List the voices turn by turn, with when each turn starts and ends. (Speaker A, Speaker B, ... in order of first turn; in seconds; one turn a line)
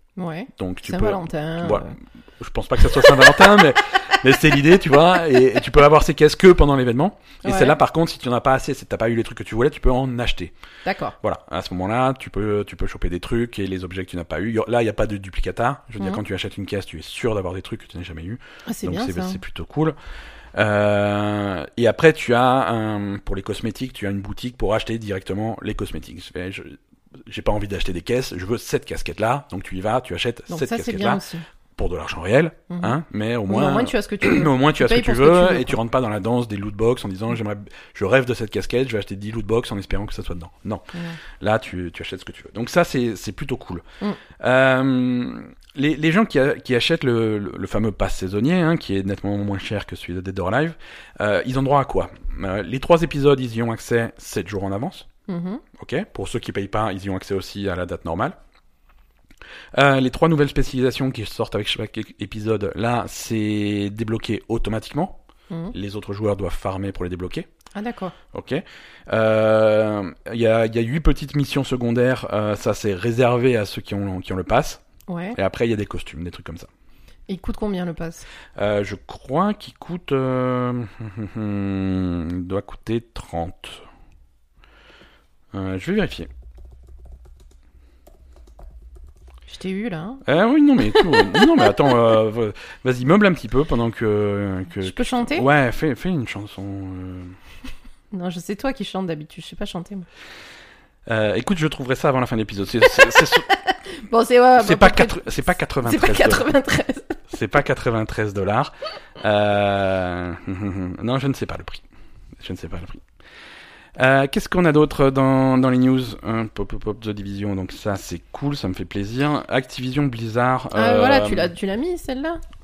Speaker A: 0.2-1.9
Speaker B: 0.6-10.5
Speaker A: 2.8-3.6
Speaker A: 7.4-7.8
Speaker A: 10.8-11.2
Speaker B: 11.2-19.9
Speaker A: 18.7-19.4
Speaker B: 20.5-31.2
Speaker A: 30.5-31.4
Speaker B: 31.8-40.9
Speaker A: 32.7-33.0
Speaker A: 33.5-35.8
Speaker B: 41.4-43.8
Speaker B: 44.4-55.1
Speaker A: 55.3-55.6
Speaker B: 55.7-58.4
Speaker B: 59.7-65.2
Speaker A: 65.5-65.7
Speaker B: 65.7-67.5
Speaker A: 67.7-68.1
Speaker B: 68.3-74.8
Speaker A: 75.1-75.4
Speaker B: 75.3-76.7
Speaker A: 77.3-78.2
Speaker B: 78.6-83.8
Speaker B: 85.5-86.3
Speaker A: 89.5-90.2
Speaker B: 90.2-97.3
Speaker A: 90.8-91.7
Speaker A: 94.8-95.5
Speaker A: 98.1-100.0
Speaker B: 101.1-103.5
Speaker A: 103.7-105.2
Speaker B: 104.5-106.5
Speaker A: 105.8-107.2
Speaker B: 107.3-111.8
Speaker B: 112.4-113.0
Speaker B: 114.0-121.5
Speaker A: 120.7-122.4